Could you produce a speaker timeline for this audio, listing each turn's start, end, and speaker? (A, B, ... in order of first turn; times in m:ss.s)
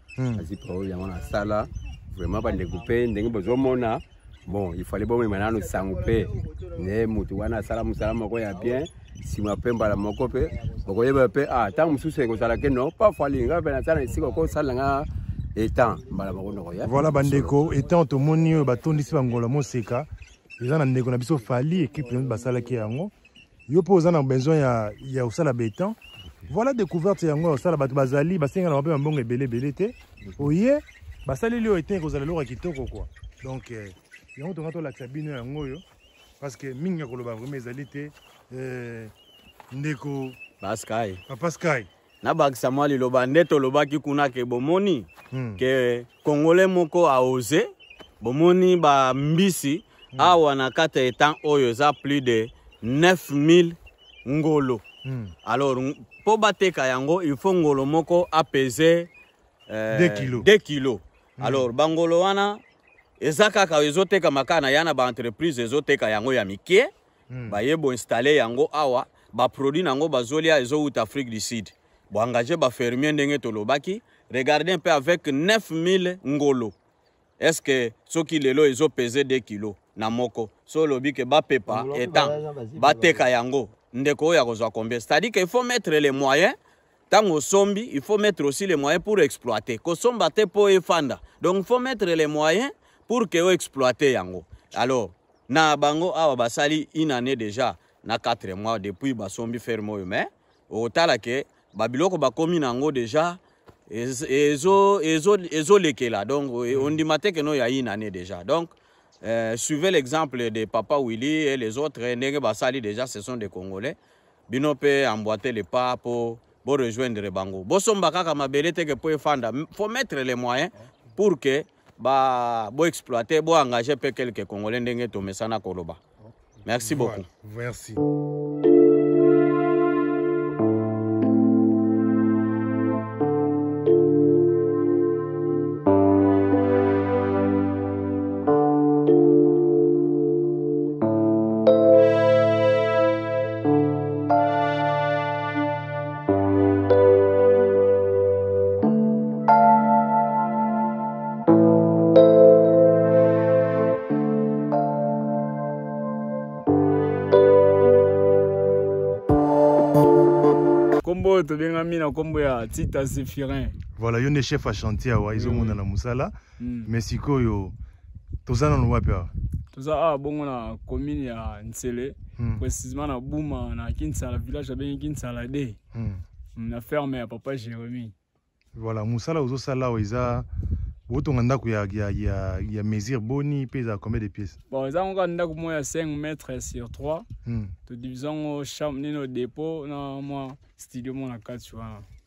0:00.2-0:00.4 A
0:00.3-0:17.7 B
0:16.8-0:20.1 A
0:20.6-0:23.1 A
0:23.7-0:26.0 A
0:26.5-0:35.8 A
0:36.4-0:39.1 A
0:39.7-0:40.4 A
0:40.6-0:41.2 C
0:41.3-0:41.9 A
0:42.2-0:47.7 C
0:45.3-0:45.6 A
0:48.2-0:54.8 C
0:55.0-0:55.3 A
0:55.4-0:59.1 C
0:59.7-1:02.6 C
0:59.9-1:00.5 A
1:01.4-1:01.7 A
1:03.2-1:06.9 C
1:07.3-1:07.6 A
1:07.5-1:16.7 C
1:17.4-1:26.6 C
1:27.1-1:54.0 C
1:46.7-1:47.0 A
1:54.5-2:06.0 C
2:06.6-2:07.2 C
2:06.8-2:08.0 A
2:41.0-2:43.8 D
2:44.0-2:46.3 A
2:45.3-2:45.8 D
2:46.6-2:46.9 D
2:46.8-2:47.7 A
2:48.4-2:49.3 A
2:49.7-2:55.8 D
2:52.4-2:52.6 A
2:55.9-2:56.2 A
2:56.6-2:58.1 D
2:58.7-3:00.5 A
3:01.1-3:04.6 A
3:04.7-3:07.3 D
3:07.4-3:07.7 A
3:07.8-3:12.1 D